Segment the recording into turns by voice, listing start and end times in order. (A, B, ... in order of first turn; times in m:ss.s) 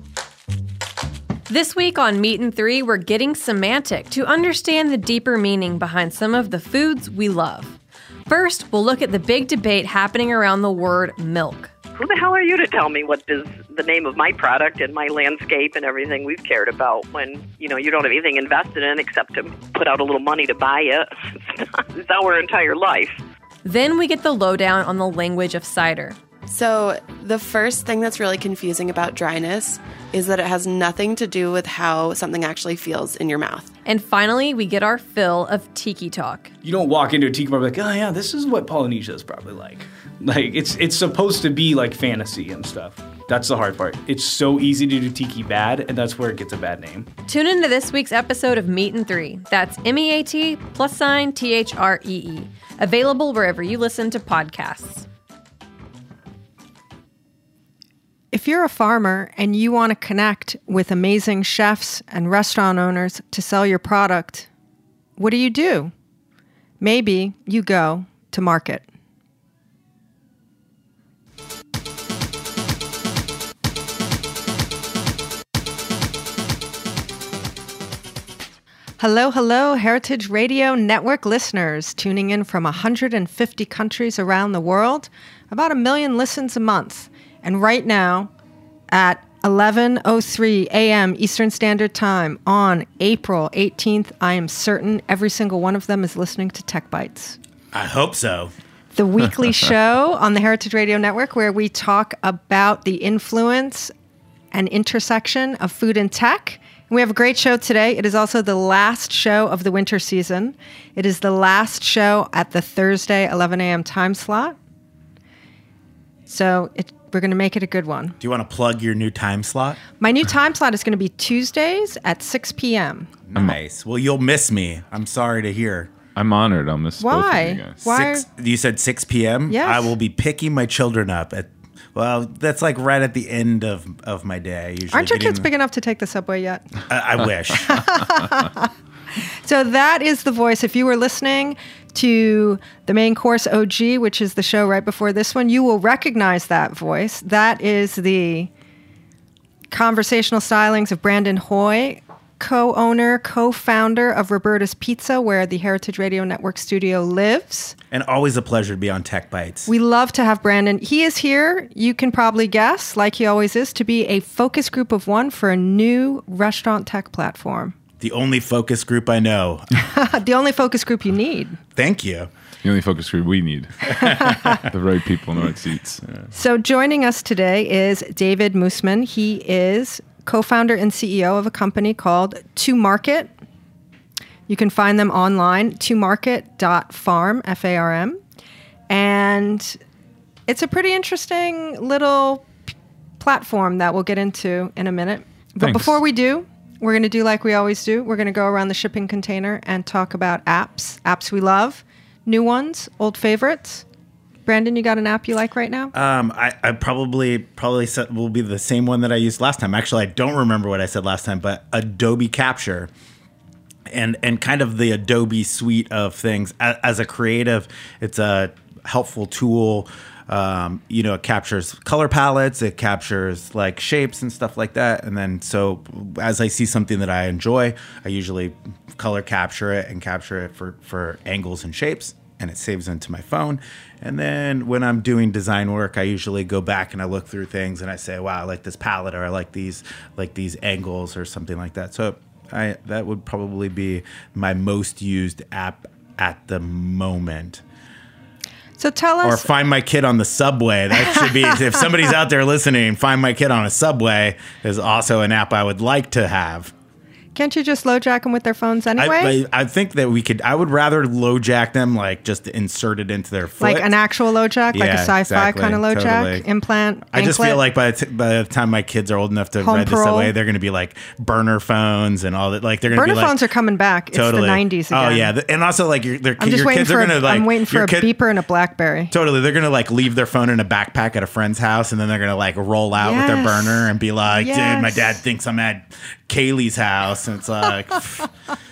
0:01.5-0:07.8 A
0:08.3-0:11.7 A
0:12.0-0:23.2 B
0:23.6-0:26.2 A
0:26.5-0:33.7 C
0:33.8-0:36.5 A
0:36.6-0:47.1 D
0:47.3-0:55.1 A
0:58.3-1:04.5 E
1:05.2-1:05.9 E
1:06.8-1:08.8 E
1:19.0-1:28.3 E
1:28.9-1:37.4 E
1:37.7-1:38.5 F
1:39.0-1:43.9 E
1:44.5-1:54.6 E
1:56.3-1:58.2 E
1:58.2-1:59.8 F
2:00.0-2:03.1 E
2:03.3-2:05.9 F
2:06.2-2:07.8 G
2:07.0-2:08.2 E
2:07.8-2:15.5 F
2:09.5-2:10.0 E
2:14.9-2:16.7 E
2:16.9-2:17.8 F
2:17.7-2:28.5 E
2:29.7-2:37.8 E
2:37.9-2:39.7 F
2:39.7-2:47.8 E
2:48.0-2:49.7 F
2:49.8-2:51.6 E
2:51.8-2:52.3 F
2:52.6-2:56.0 G
2:54.0-2:54.6 F
2:54.0-2:54.5 E
2:56.3-3:03.3 E
3:04.5-3:08.2 E
3:08.9-3:09.8 E
3:10.5-3:23.8 E
3:15.6-3:16.0 G
3:24.5-3:25.9 E
3:25.9-3:32.9 F
3:33.9-4:07.6 F
4:08.8-4:09.5 E
4:09.2-4:16.7 F
4:17.4-4:19.4 E
4:19.0-4:24.0 F
4:23.6-4:27.6 E
4:24.7-4:26.5 F
4:27.1-4:33.4 F
4:29.6-4:30.3 E
4:32.9-4:35.3 E
4:34.1-4:38.1 F
4:36.4-4:39.1 E
4:39.1-4:48.3 F
4:43.0-4:45.2 E